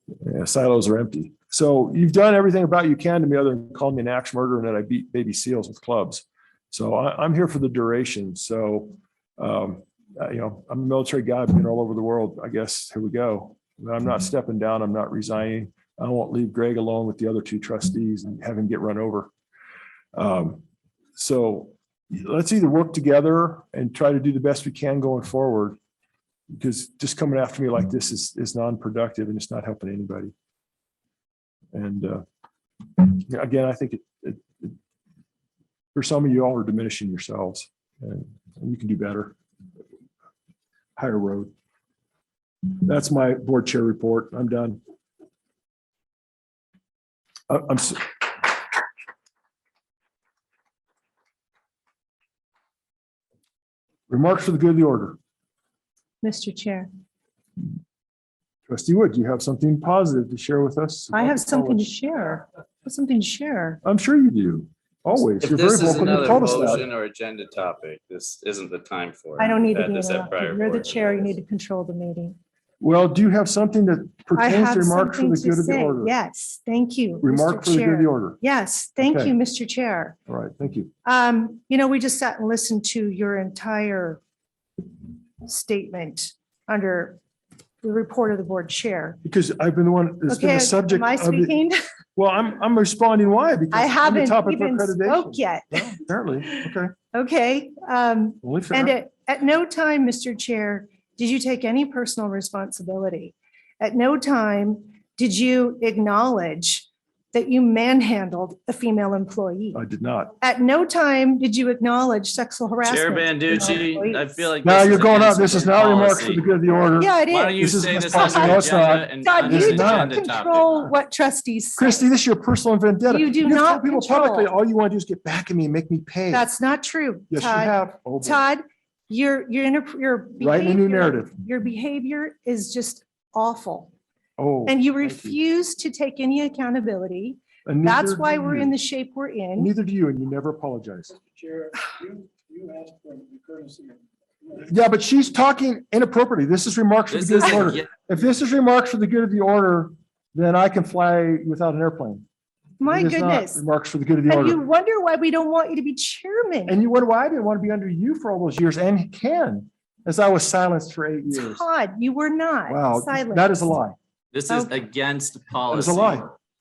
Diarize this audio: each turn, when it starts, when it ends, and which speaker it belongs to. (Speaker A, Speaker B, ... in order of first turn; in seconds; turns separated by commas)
Speaker A: 0.2-19.3, Speaker A: 20.1-20.6, Speaker A: 21.1-25.8, Speaker A: 26.5-30.3, Speaker A: 31.7-32.2, Speaker A: 33.0-34.8, Speaker A: 35.9-39.4, Speaker A: 41.0-41.5, Speaker A: 42.7-44.8, Speaker A: 47.5-48.5, Speaker A: 54.1-55.2, Speaker B: 56.2-56.9, Speaker A: 58.7-62.0, Speaker B: 61.1-63.8, Speaker A: 63.8-66.9, Speaker C: 65.4-71.3, Speaker B: 69.4-72.4, Speaker A: 72.8-76.1, Speaker B: 74.3-80.2, Speaker A: 77.2-78.4, Speaker A: 79.0-79.3, Speaker A: 80.3-80.9, Speaker B: 81.0-84.2, Speaker B: 85.4-87.2, Speaker B: 87.8-89.2, Speaker A: 89.2-91.5, Speaker B: 90.3-91.8, Speaker A: 92.2-96.9, Speaker B: 93.7-96.0, Speaker B: 96.5-109.8, Speaker A: 98.4-99.0, Speaker A: 109.7-110.3, Speaker B: 110.4-114.5, Speaker C: 112.8-116.4, Speaker A: 114.6-120.2, Speaker B: 117.0-122.1, Speaker C: 117.3-120.9, Speaker A: 121.8-126.5, Speaker B: 123.1-124.5, Speaker B: 126.3-133.9, Speaker A: 127.3-128.4, Speaker A: 130.4-131.3, Speaker A: 134.4-135.4, Speaker B: 134.7-139.7, Speaker A: 137.6-138.7, Speaker A: 139.6-141.2, Speaker D: 141.2-144.5, Speaker A: 144.6-152.2, Speaker C: 147.1-147.9, Speaker B: 152.8-153.6, Speaker A: 152.8-154.6, Speaker B: 154.3-156.8, Speaker A: 156.7-161.6, Speaker B: 161.3-163.7, Speaker A: 162.7-163.9, Speaker C: 164.3-166.3, Speaker A: 165.7-166.3